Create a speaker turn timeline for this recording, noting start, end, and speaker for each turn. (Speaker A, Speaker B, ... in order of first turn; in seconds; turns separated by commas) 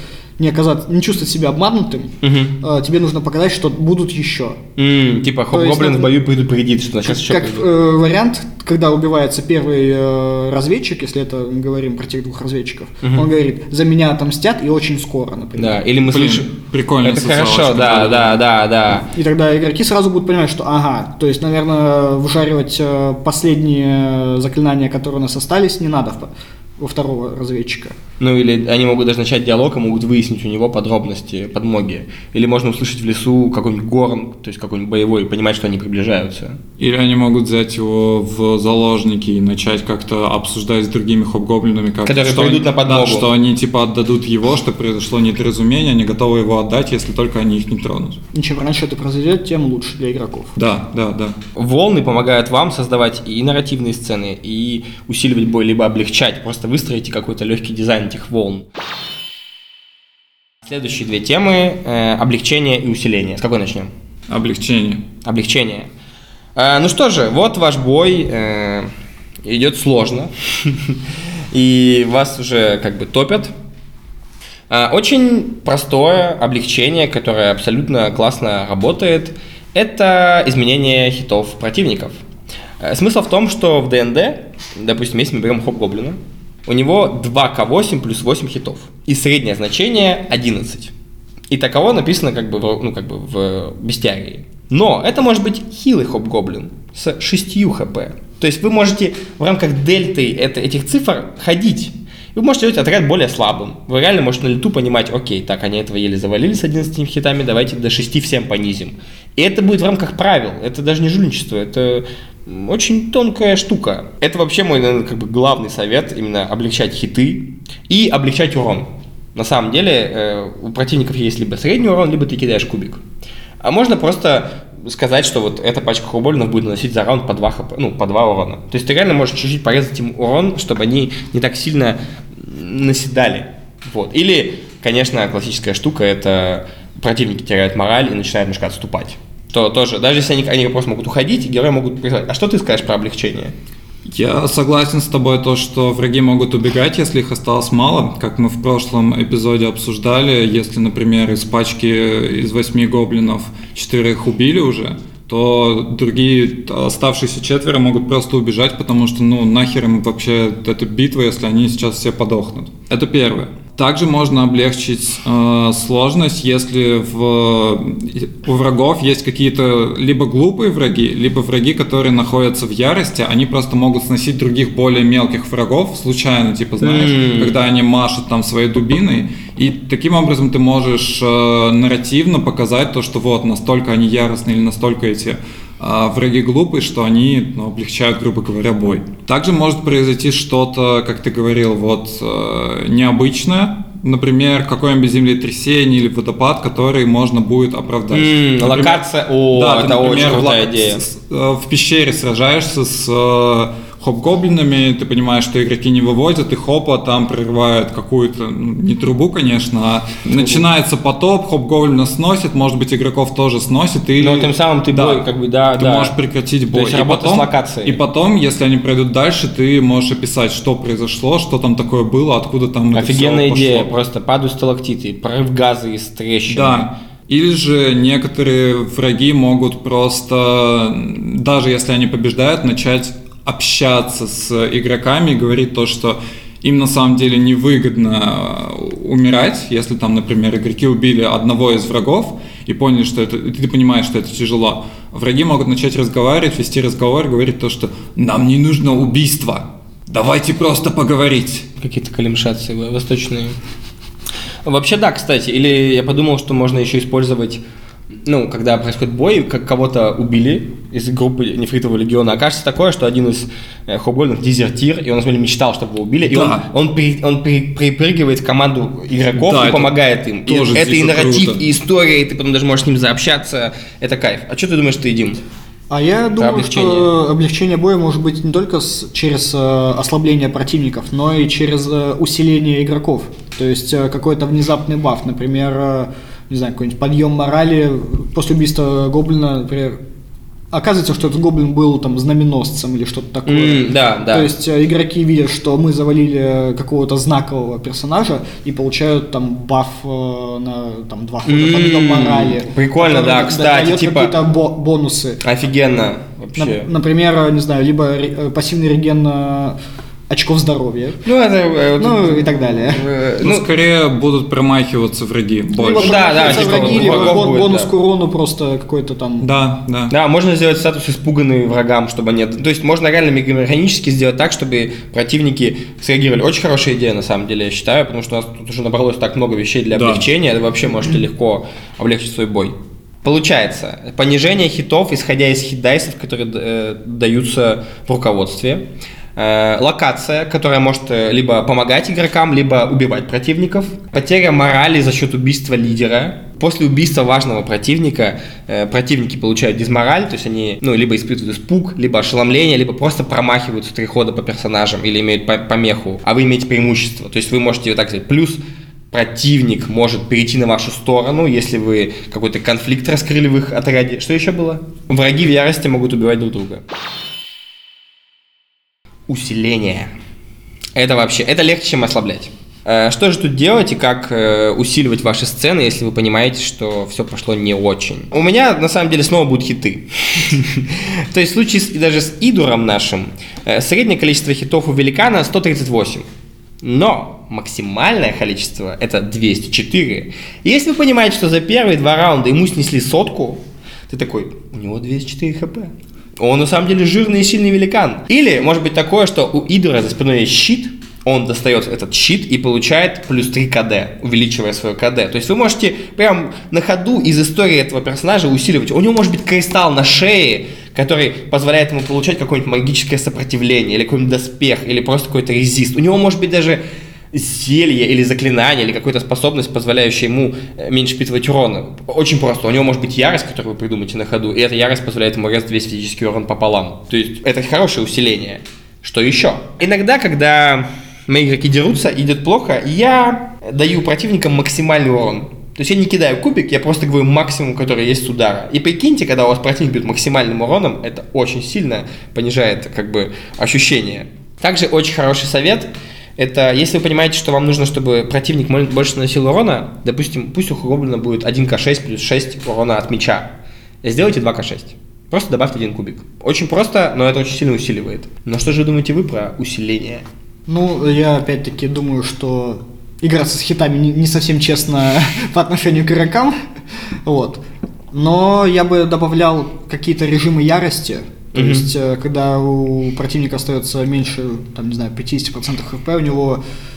Speaker A: 0.4-4.6, Speaker B: 2.2-2.6, Speaker B: 4.8-7.7, Speaker A: 5.5-6.1, Speaker A: 7.0-15.8, Speaker B: 13.0-13.3, Speaker B: 15.6-16.5, Speaker C: 16.1-18.4, Speaker B: 17.0-19.1, Speaker A: 19.1-27.9, Speaker B: 28.2-36.6, Speaker C: 36.8-48.2, Speaker B: 42.0-43.3, Speaker A: 48.3-50.5, Speaker C: 50.6-51.4, Speaker B: 51.5-58.6, Speaker B: 60.6-63.9, Speaker C: 64.3-65.0, Speaker B: 65.2-65.9, Speaker B: 66.5-68.9, Speaker B: 69.4-71.0, Speaker B: 71.5-73.5, Speaker B: 74.7-82.2, Speaker B: 82.8-90.9, Speaker B: 91.5-123.0, Speaker B: 123.6-143.5, Speaker C: 144.1-223.9, Speaker B: 176.8-177.6, Speaker B: 198.1-201.0, Speaker B: 210.3-210.6, Speaker B: 214.2-216.1, Speaker B: 216.7-218.0, Speaker B: 222.9-226.9, Speaker C: 226.5-251.7, Speaker B: 251.8-253.6, Speaker B: 254.6-257.6, Speaker B: 258.2-275.4, Speaker C: 266.3-266.6, Speaker C: 269.4-269.9, Speaker C: 270.4-271.6, Speaker A: 275.9-290.0, Speaker B: 276.4-277.1, Speaker A: 290.7-305.4, Speaker B: 293.4-294.5, Speaker B: 301.4-304.3, Speaker B: 305.4-306.9, Speaker A: 306.6-309.8, Speaker A: 310.3-311.2, Speaker B: 311.2-313.7, Speaker A: 312.0-313.0, Speaker C: 313.4-317.4, Speaker A: 315.8-319.5, Speaker B: 315.9-317.9, Speaker C: 319.4-320.1, Speaker B: 320.1-358.6, Speaker C: 329.9-330.3, Speaker B: 359.1-366.8, Speaker B: 369.3-370.1, Speaker B: 370.9-386.2, Speaker B: 386.8-416.8, Speaker B: 417.3-453.5, Speaker B: 454.0-460.2, Speaker A: 460.7-466.6, Speaker A: 467.2-476.6, Speaker B: 471.5-471.9